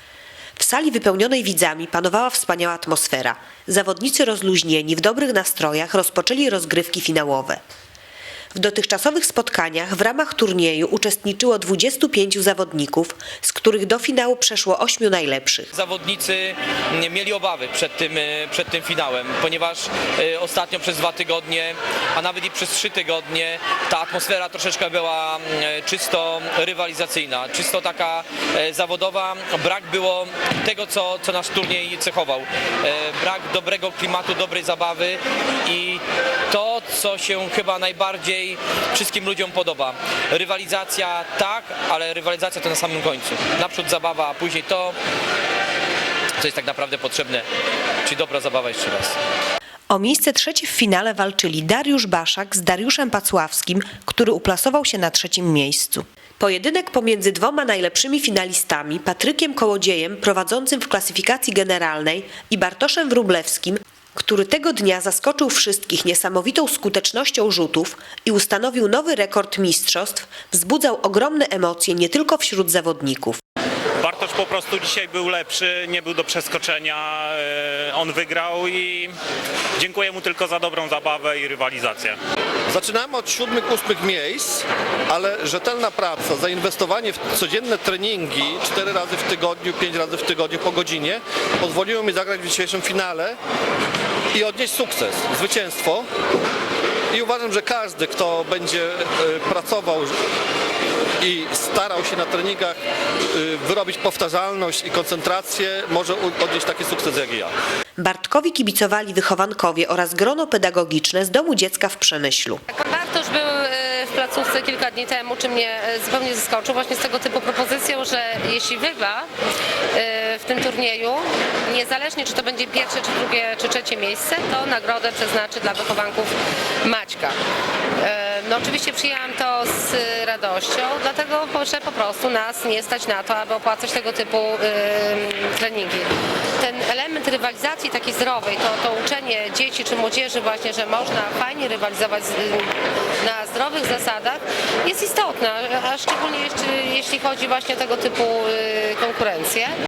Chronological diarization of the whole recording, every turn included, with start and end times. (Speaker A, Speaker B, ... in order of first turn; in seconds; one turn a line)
Speaker A: 0.6-7.6
Speaker A: 8.5-15.7
Speaker B: 15.7-45.0
Speaker B: 46.4-47.5
Speaker B: 48.0-49.2
Speaker A: 49.9-73.4
Speaker C: 74.0-79.2
Speaker C: 79.8-82.2
Speaker D: 82.7-93.4
Speaker D: 94.3-96.1
Speaker D: 97.1-100.2
Speaker D: 101.2-102.8
Speaker D: 103.3-107.5
Speaker A: 108.0-112.6
Speaker E: 112.7-119.3
Speaker E: 119.9-127.4
Speaker E: 128.0-149.7